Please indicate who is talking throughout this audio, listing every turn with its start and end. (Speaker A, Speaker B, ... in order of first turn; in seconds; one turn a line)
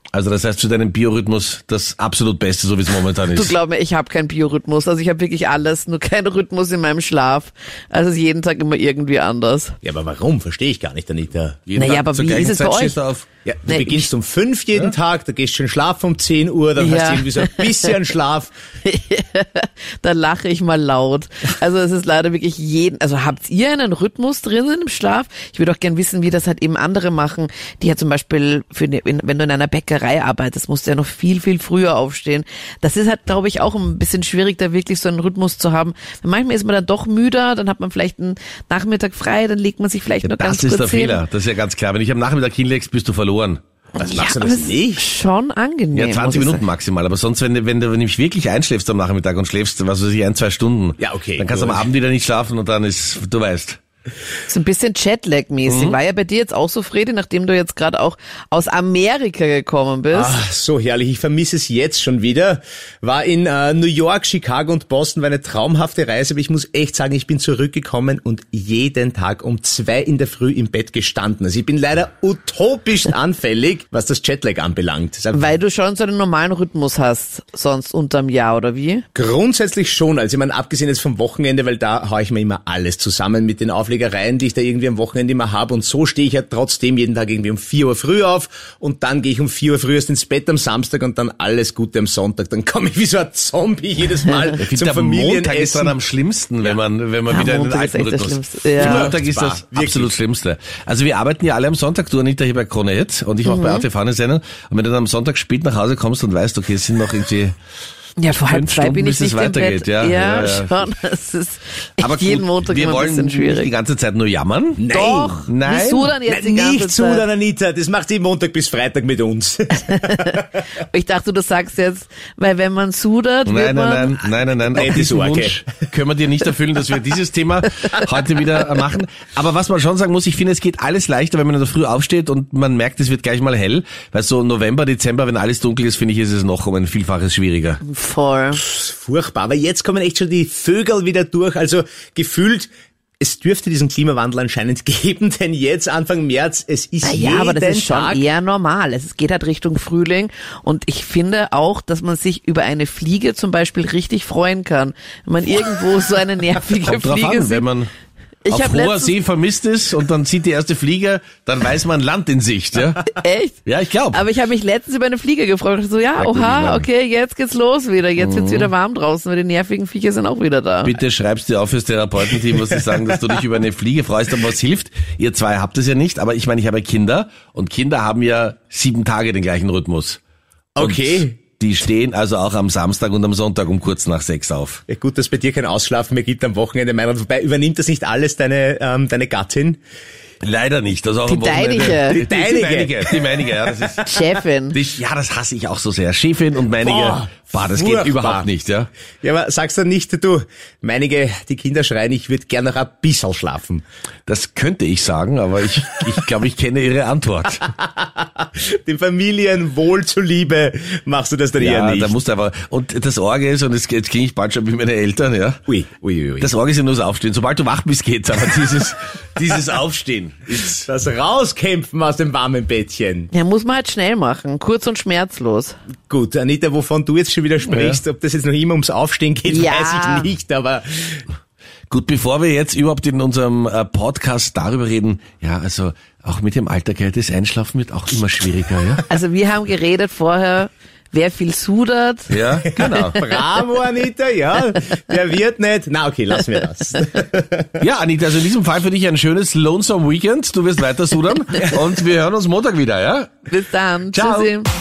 Speaker A: 0.1-3.6
Speaker B: 3.3-9.7
Speaker C: 9.8-11.6
Speaker A: 11.7-13.2
Speaker B: 11.8-13.0
Speaker C: 13.4-18.5
Speaker B: 13.7-14.1
Speaker B: 16.8-17.9
Speaker B: 18.8-41.2
Speaker A: 40.2-43.6
Speaker C: 44.0-45.0
Speaker B: 44.0-46.6
Speaker A: 45.9-53.8
Speaker C: 51.0-51.9
Speaker B: 54.5-60.4
Speaker A: 55.6-56.0
Speaker C: 60.1-75.5
Speaker B: 75.3-79.0
Speaker C: 79.1-96.0
Speaker A: 94.6-107.5
Speaker B: 97.3-99.1
Speaker C: 98.8-100.1
Speaker B: 103.4-103.8
Speaker B: 108.2-113.7
Speaker A: 108.3-110.9
Speaker A: 112.0-114.8
Speaker C: 114.8-115.5
Speaker B: 114.9-117.3
Speaker A: 115.5-116.2
Speaker C: 116.2-120.4
Speaker B: 119.8-124.2
Speaker A: 123.5-137.8
Speaker C: 124.7-125.6
Speaker B: 137.8-138.6
Speaker C: 138.5-148.2
Speaker B: 147.0-157.7
Speaker A: 156.8-157.9
Speaker B: 158.4-159.1
Speaker A: 158.5-163.0
Speaker B: 163.1-163.6
Speaker A: 163.6-164.2
Speaker B: 164.1-171.0
Speaker A: 166.2-166.9
Speaker A: 168.2-168.7
Speaker A: 170.8-180.2
Speaker C: 180.8-181.4
Speaker A: 180.8-184.8
Speaker C: 184.9-189.8
Speaker A: 190.4-194.2
Speaker B: 191.2-192.2
Speaker C: 191.9-193.3
Speaker B: 194.0-194.8
Speaker A: 194.7-198.9
Speaker C: 196.8-198.5
Speaker C: 199.2-203.8
Speaker A: 204.3-207.6
Speaker C: 207.7-212.1
Speaker A: 211.6-215.6
Speaker C: 215.7-216.5
Speaker A: 216.4-220.8
Speaker C: 220.8-223.3
Speaker B: 223.3-225.8
Speaker C: 226.1-231.2
Speaker A: 227.6-228.0
Speaker B: 229.5-230.3
Speaker A: 231.9-239.0
Speaker B: 239.1-243.1
Speaker A: 242.3-243.2
Speaker C: 242.8-247.8
Speaker A: 247.8-253.5
Speaker B: 253.5-254.7
Speaker A: 254.1-254.5